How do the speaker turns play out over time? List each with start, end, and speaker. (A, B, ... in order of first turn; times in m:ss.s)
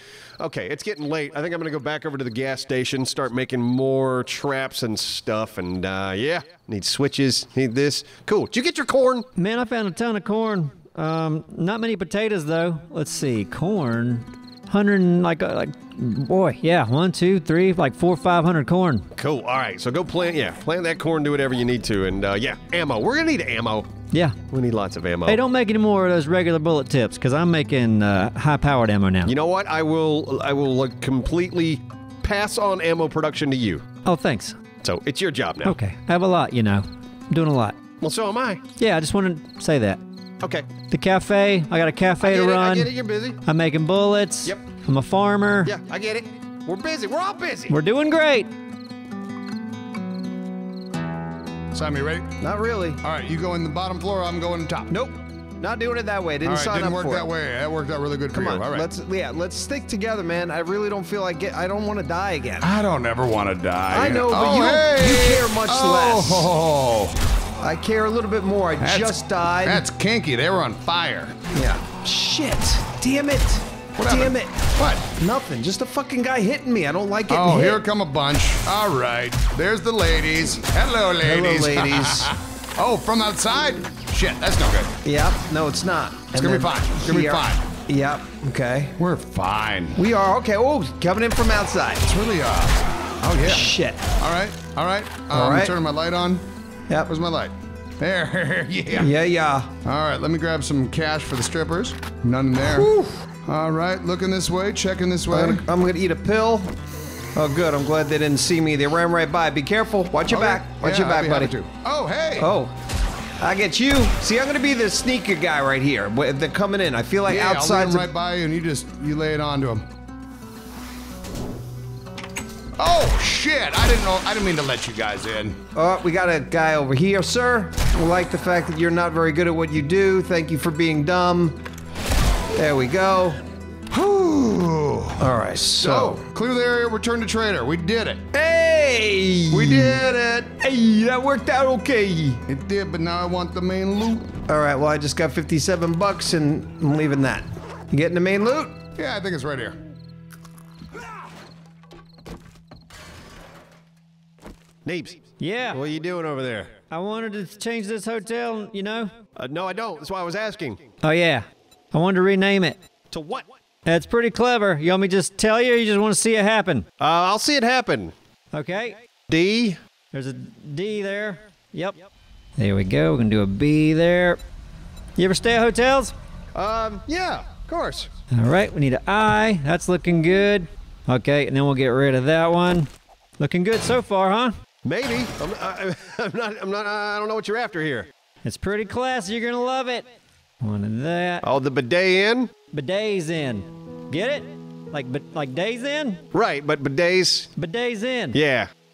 0:00.4-0:09.3 A
0:09.4-0:19.1 B
0:19.2-0:23.9 A
0:24.5-0:25.4 A
0:25.3-0:29.3 B
0:29.3-0:33.8 A
0:34.0-0:34.6 B
0:34.8-0:35.8 A
0:35.6-0:37.8 B
0:38.0-0:38.6 A
0:38.8-0:40.0 B
0:40.4-0:40.7 A
0:40.9-0:42.9 B
0:42.2-0:43.4 A
0:43.5-0:45.7 B
0:45.6-0:47.8 A
0:47.7-0:48.5 B
0:51.7-0:52.3 C
0:52.4-0:53.0 D
0:53.0-0:54.9 C
0:54.9-0:57.3 D
0:56.4-0:58.9 C
0:58.3-1:02.7 D
1:02.6-1:07.2 C
1:03.9-1:06.5 D
1:07.6-1:09.8 D
1:08.8-1:11.4 C
1:11.5-1:17.8 D
1:14.0-1:15.1 C
1:17.3-1:24.9 C
1:21.2-1:22.3 D
1:25.0-1:29.0 D
1:26.4-1:27.7 C
1:29.0-1:30.0 C
1:30.0-1:32.1 D
1:32.0-1:36.4 C
1:33.4-1:34.0 D
1:35.3-1:35.7 D
1:37.0-1:39.1 C
1:38.9-1:39.7 D
1:39.8-1:42.9 C
1:42.6-1:43.2 D
1:43.5-1:45.7 C
1:45.3-1:46.7 D
1:47.3-1:51.5 D
1:50.3-1:52.5 C
1:52.4-1:52.7 D
1:53.4-1:58.1 D
1:57.3-1:59.8 C
2:02.8-2:05.6 C
2:05.8-2:11.6 D
2:12.5-2:13.4 D
2:13.9-2:18.2 C
2:15.2-2:16.2 D
2:18.3-2:22.4 D
2:19.5-2:20.4 C
2:22.5-2:24.3 C
2:24.5-2:28.8 D
2:29.0-2:29.8 C
2:34.8-2:35.2 A
2:35.4-2:35.8 B
2:35.7-2:36.7 A
2:36.9-2:39.1 B
2:39.4-2:40.8 A
2:41.0-2:42.8 B
2:43.1-2:43.5 A
2:43.9-2:46.9 B
2:47.0-2:48.1 A
2:48.5-2:49.0 B
2:49.3-2:49.8 A
2:50.1-2:54.4 B
2:55.2-2:56.1 B
2:56.6-2:58.1 A
2:58.3-3:04.6 B
3:04.8-3:08.1 A
3:08.4-3:10.1 B
3:10.6-3:11.4 B
3:11.4-3:12.5 A
3:12.7-3:16.2 B
3:16.3-3:17.5 A
3:17.6-3:18.4 B
3:18.3-3:18.7 A